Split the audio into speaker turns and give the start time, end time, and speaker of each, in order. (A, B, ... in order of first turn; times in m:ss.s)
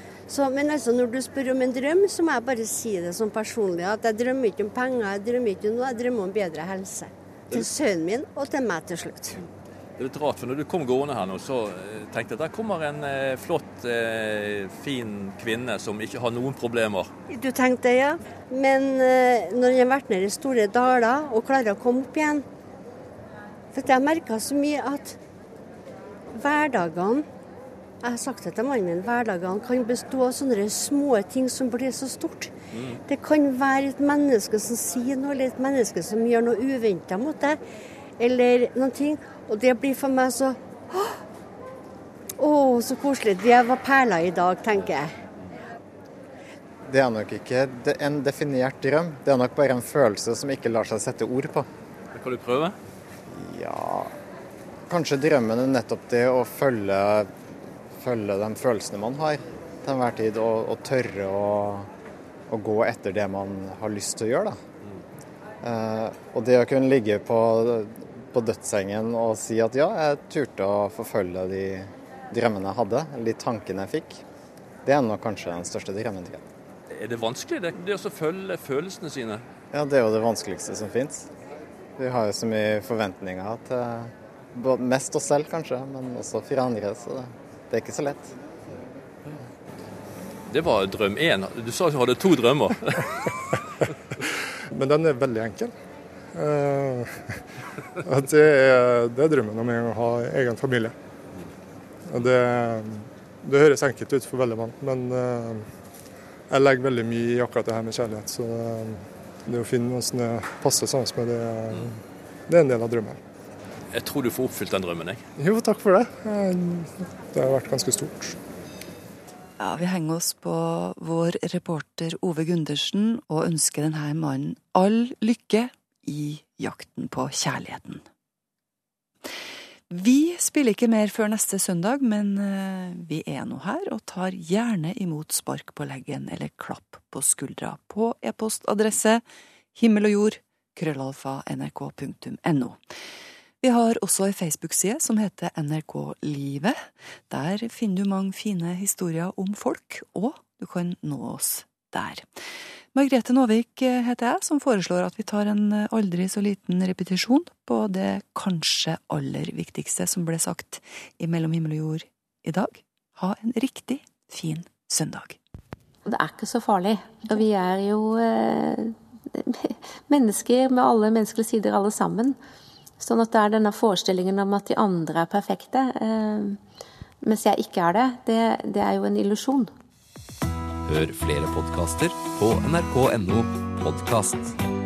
0:00.3-0:09.4 A
0:10.0-0:17.1 B
0:17.3-0:22.4 A
0:23.7-0:25.2 A
0:26.3-0:27.3 A
0:28.0-0:37.6 A
0:32.7-0:33.0 B
0:38.2-0:41.2 A
0:42.4-0:45.2 A
0:46.9-0:51.7 C
0:52.1-0:52.8 B
0:53.3-0:54.1 C
0:54.9-0:57.3 C
0:58.0-1:01.9 C
1:02.5-1:04.6 C
1:05.6-1:14.2 C
1:14.8-1:16.4 C
1:16.9-1:19.4 B
1:19.7-1:21.3 C
1:22.0-1:28.4 C
1:30.5-1:33.3 B
1:34.8-1:35.7 D
1:36.3-1:37.2 D
1:38.0-1:40.9 D
1:42.1-1:45.7 D
1:46.5-1:52.0 D
1:51.7-1:52.0 B
1:52.5-1:53.2 D
1:53.9-1:55.2 B
1:55.4-1:58.4 D
1:59.6-2:08.0 E
2:09.9-2:19.2 E
2:19.7-2:22.9 E
2:23.6-2:45.4 E
2:46.0-2:52.4 F
2:53.0-2:56.6 F
2:57.2-2:59.7 F
3:00.8-3:04.6 G